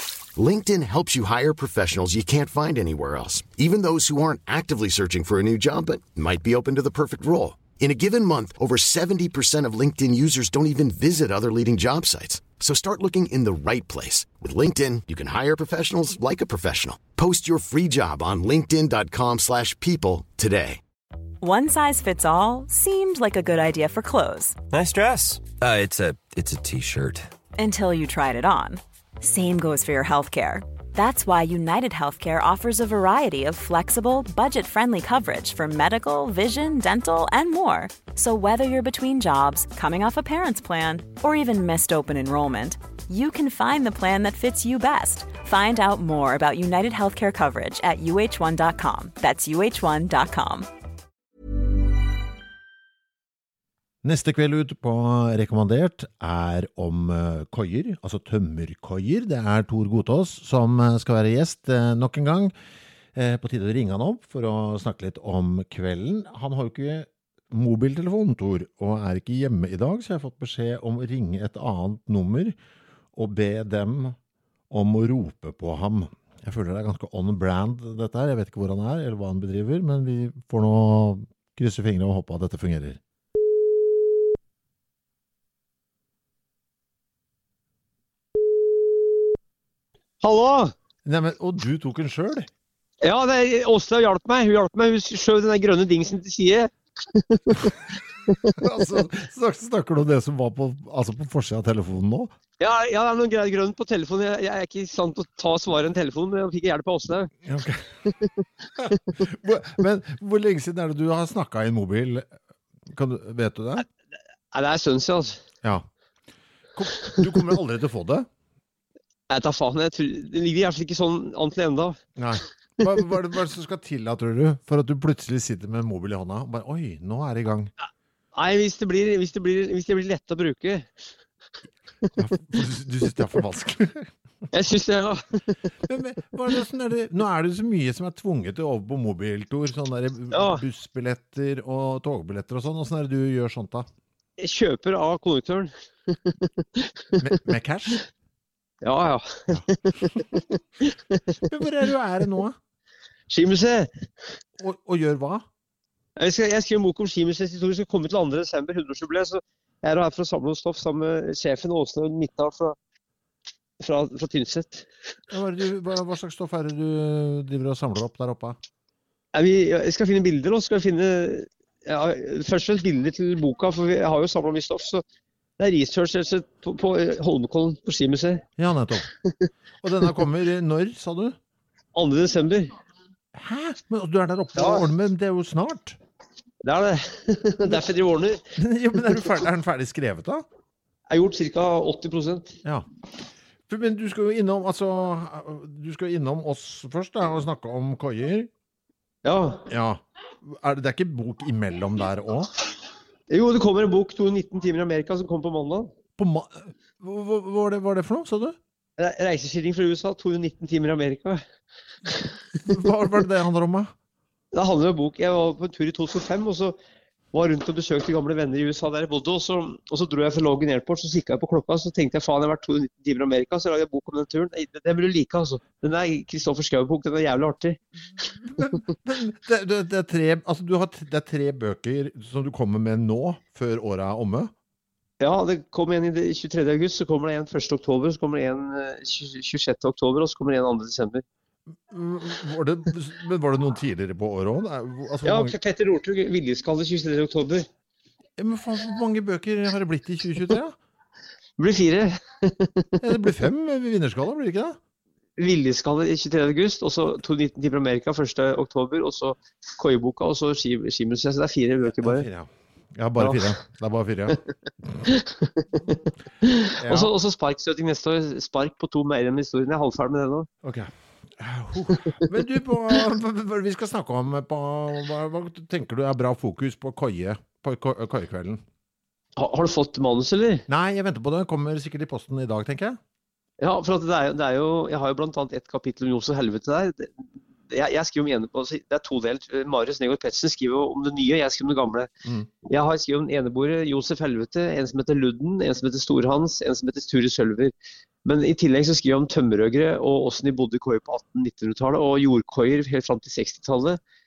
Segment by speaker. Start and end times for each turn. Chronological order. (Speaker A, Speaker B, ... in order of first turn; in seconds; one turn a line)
Speaker A: 0.3-20.8
Speaker B: 21.4-24.6
Speaker C: 24.7-27.3
Speaker B: 27.6-50.7
Speaker D: 54.0-62.5
Speaker D: 63.1-72.5
Speaker D: 73.1-74.2
Speaker D: 74.7-83.0
Speaker E: 90.2-90.7
Speaker D: 91.0-92.5
Speaker E: 93.0-97.7
Speaker E: 98.3-98.5
Speaker D: 98.6-102.3
Speaker E: 102.6-107.3
Speaker D: 107.4-107.9
Speaker D: 108.7-112.3
Speaker D: 112.9-113.8
Speaker E: 114.5-115.4
Speaker D: 116.7-118.3
Speaker E: 119.3-122.0
Speaker D: 122.2-127.7
Speaker E: 128.3-131.0
Speaker D: 132.2-134.1
Speaker E: 134.5-135.6
Speaker D: 135.8-143.9
Speaker E: 140.3-140.6
Speaker E: 144.4-147.2
Speaker D: 147.2-148.0
Speaker E: 148.8-151.4
Speaker D: 151.5-152.6
Speaker E: 153.3-153.9
Speaker D: 154.6-155.4
Speaker E: 156.2-162.8
Speaker E: 163.8-164.8
Speaker D: 165.3-168.6
Speaker E: 169.3-175.0
Speaker E: 175.6-178.4
Speaker D: 178.6-179.1
Speaker D: 179.8-181.3
Speaker E: 181.9-182.7
Speaker D: 183.3-186.0
Speaker E: 184.6-184.8
Speaker E: 186.6-188.4
Speaker D: 188.6-190.4
Speaker E: 191.1-192.6
Speaker D: 193.7-198.5
Speaker E: 199.2-199.7
Speaker D: 199.7-202.5
Speaker E: 203.3-205.9
Speaker D: 206.2-208.6
Speaker E: 209.0-211.4
Speaker D: 212.5-213.9
Speaker E: 214.5-216.8
Speaker E: 217.3-227.8
Speaker D: 228.3-234.5
Speaker E: 235.2-241.2
Speaker D: 241.9-245.6
Speaker E: 245.2-247.7
Speaker D: 248.4-250.8
Speaker E: 251.6-253.0
Speaker D: 253.0-254.8
Speaker E: 255.4-262.3
Speaker D: 262.0-264.4
Speaker E: 263.2-263.5
Speaker E: 265.1-265.9
Speaker E: 266.4-270.5
Speaker D: 266.7-267.1
Speaker D: 270.6-278.6
Speaker E: 279.4-280.6
Speaker D: 280.7-283.0
Speaker E: 283.6-292.1
Speaker D: 292.2-292.5
Speaker E: 292.6-297.7
Speaker E: 298.2-304.0